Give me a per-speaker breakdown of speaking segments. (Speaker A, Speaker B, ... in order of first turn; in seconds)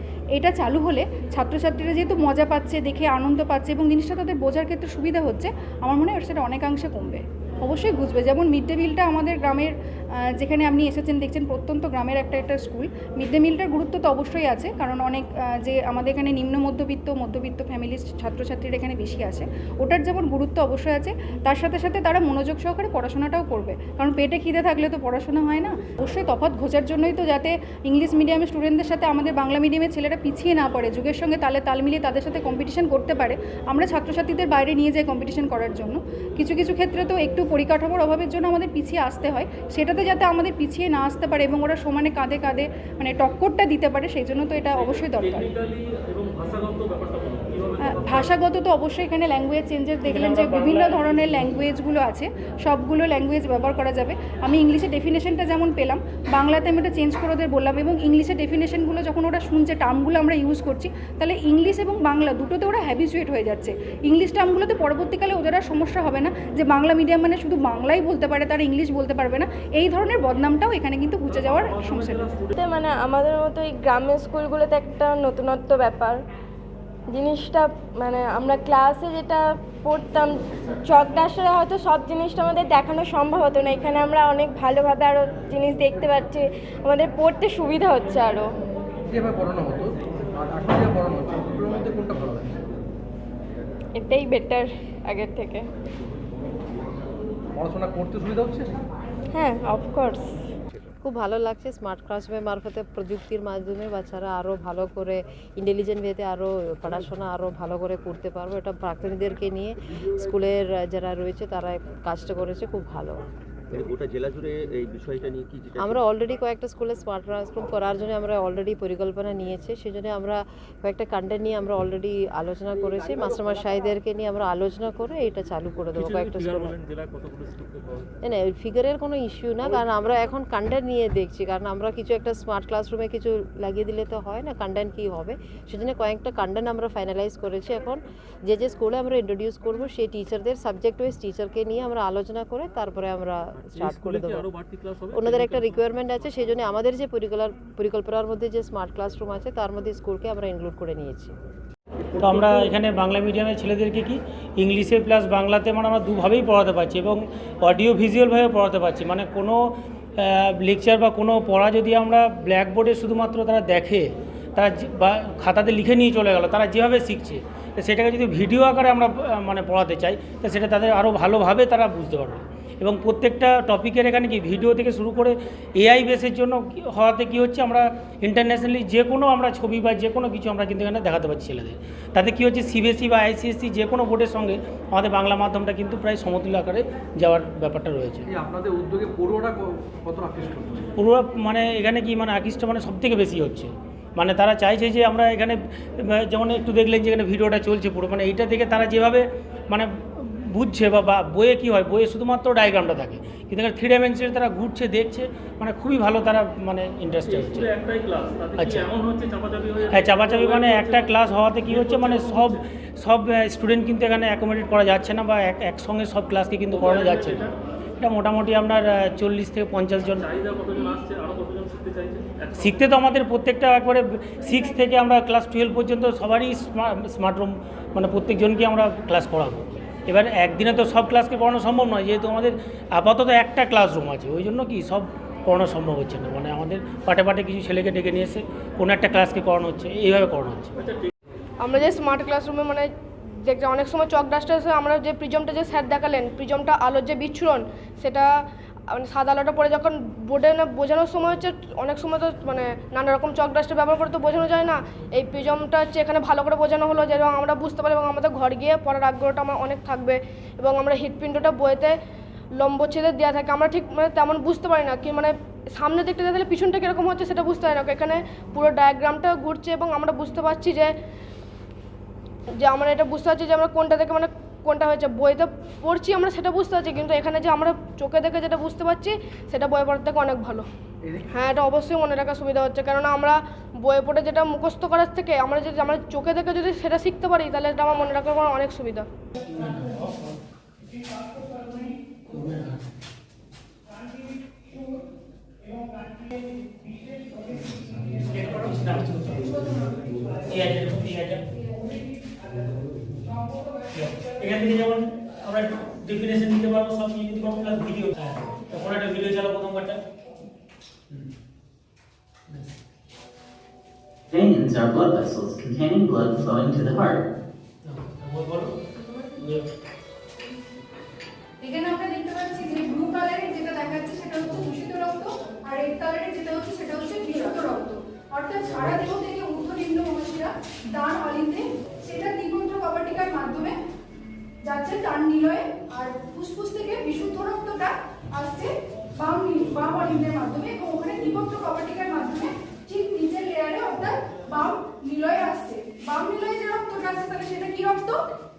Speaker A: 0.3-45.5, 47.8-72.4, 321.6-333.8, 334.6-348.2
Speaker B: 44.7-48.4, 71.3-72.5, 126.0-128.1, 143.6-146.5, 207.2-212.6, 216.7-217.5, 220.2-222.8
Speaker C: 50.0-51.4, 152.2-159.6, 160.2-188.2, 191.0-207.7, 208.6-208.9, 209.9-217.5, 218.0-220.2, 222.6-240.8, 289.5-290.0, 292.3-292.8, 298.2-299.9, 300.5-301.4, 303.9-310.0, 317.8-318.7, 319.4-319.6
Speaker D: 72.6-76.2, 77.1-88.5, 93.9-95.7, 99.3-100.3
Speaker E: 89.1-92.6, 97.6-98.8, 188.3-190.9, 281.0-281.5
Speaker F: 101.0-113.2, 115.7-126.7, 128.2-144.5, 145.1-151.3
Speaker G: 113.7-116.0
Speaker H: 241.6-242.9, 243.4-248.3, 248.9-261.9, 262.6-270.9, 272.5-280.7, 281.3-289.1
Speaker I: 314.3-317.2